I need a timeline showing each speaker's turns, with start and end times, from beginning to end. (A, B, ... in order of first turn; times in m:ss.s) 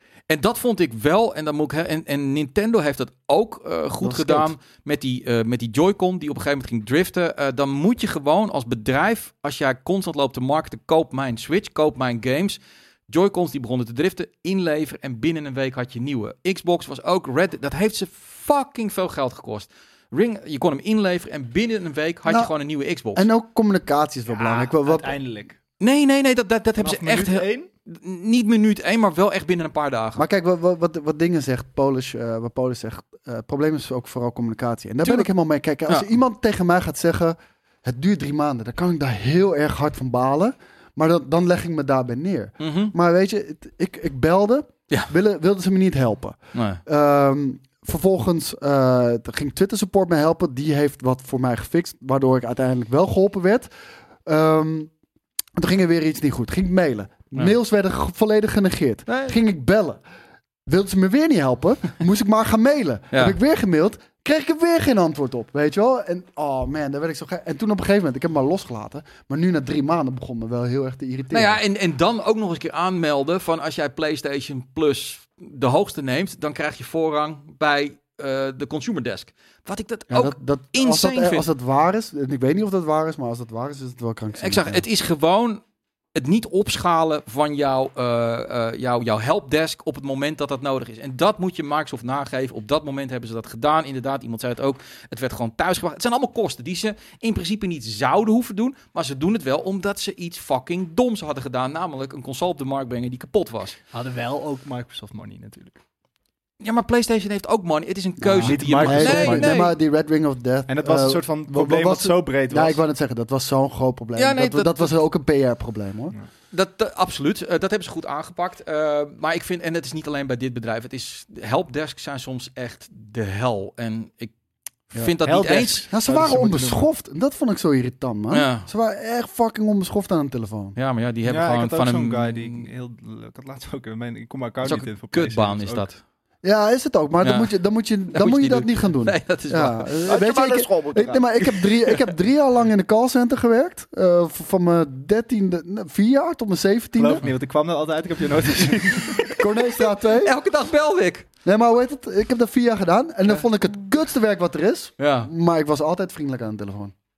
0:00.3-0:12.6 A
0:04.0-0:04.5 B
0:13.1-0:23.3 A
0:23.1-0:25.1 B
0:24.3-0:25.6 C
0:25.8-0:30.2 A
0:26.8-0:27.7 C
0:30.2-0:53.7 B
0:35.0-0:35.3 A
0:42.6-0:42.9 A
0:46.5-0:46.8 A
0:54.2-0:54.9 B
0:55.6-1:00.0 B
0:59.1-0:59.3 A
1:00.7-1:11.6 B
1:11.3-1:21.4 A
1:20.1-1:24.8 B
1:24.4-1:25.6 A
1:26.1-1:43.8 A
1:43.9-1:45.8 C
1:46.6-1:49.7 A
1:48.2-1:56.1 B
1:48.4-1:49.6 C
1:50.7-1:52.8 C
1:54.2-1:54.9 A
1:56.5-2:04.3 A
2:04.9-2:05.8 A
2:05.2-2:06.8 C
2:05.9-2:10.8 B
2:08.3-2:08.7 A
2:10.8-2:12.6 A
2:11.2-2:15.8 C
2:14.6-2:16.0 A
2:16.4-2:27.2 B
2:17.2-2:17.5 A
2:18.1-2:20.3 A
2:20.0-2:21.4 C
2:27.0-2:29.4 C
2:29.2-2:31.3 A
2:29.4-2:30.3 B
2:31.4-2:36.9 B
2:35.0-2:35.3 A